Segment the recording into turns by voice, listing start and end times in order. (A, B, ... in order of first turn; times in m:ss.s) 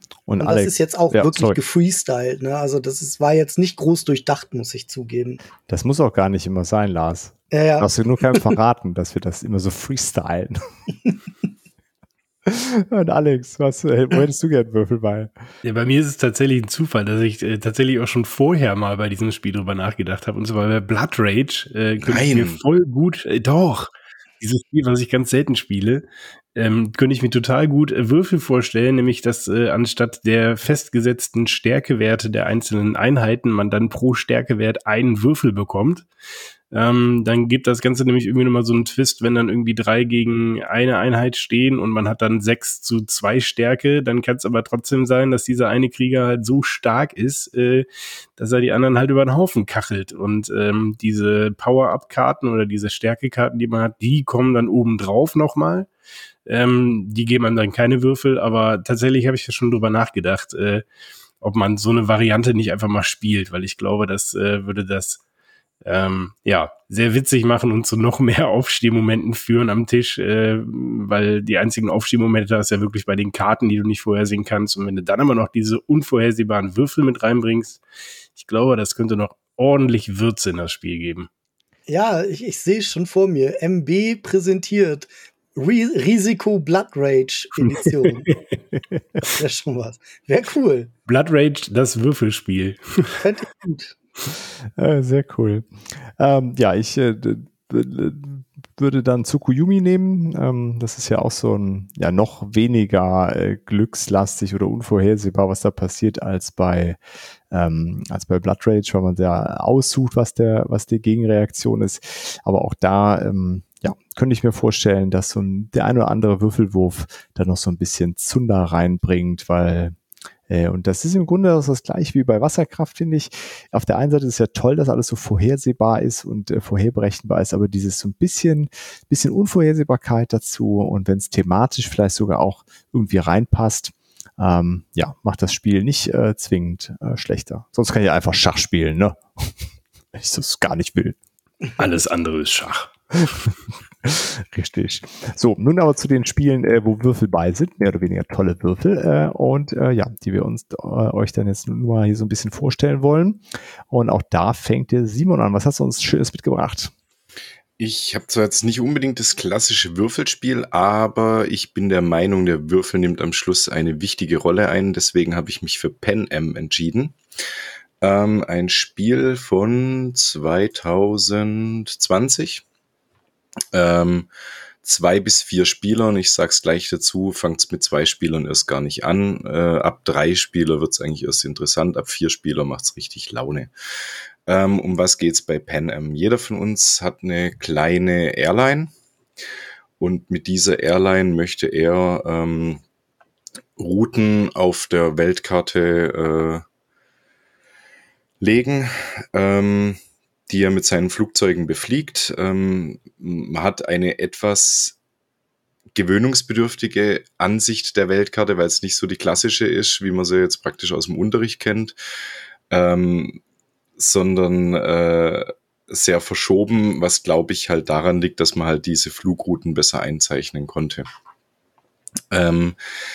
0:00.3-0:01.6 A
0:00.4-0:05.4 B
0:05.7-0:10.6 A
0:07.5-0:07.9 B
0:12.4-0:15.3 A
0:15.6-0:23.9 C
0:22.0-0:22.6 D
0:24.4-0:26.0 C
0:26.6-0:36.1 C
0:36.7-0:47.8 C
0:48.4-0:55.9 C
0:56.4-1:00.8 C
1:01.4-1:05.2 C
1:05.8-1:17.8 C
1:18.3-1:21.3 C
1:21.9-1:28.3 B
1:29.2-1:30.9 B
1:31.1-1:33.2 C
1:33.2-1:34.0 B
1:34.8-1:47.0 A
1:47.5-1:59.9 A
2:00.5-2:19.5 A
2:20.1-2:21.2 A
2:21.8-2:23.2 C
2:24.0-2:36.9 A
2:37.8-2:47.2 D
2:48.0-2:52.6 D
2:53.7-2:54.3 D
2:54.8-3:03.7 D
3:04.4-3:08.9 D
3:10.0-3:12.8 D
3:13.8-3:16.6 D
3:18.4-3:24.9 D
3:25.9-3:32.0 D
3:32.7-3:33.4 D
3:34.0-3:41.0 D
3:42.3-3:42.8 D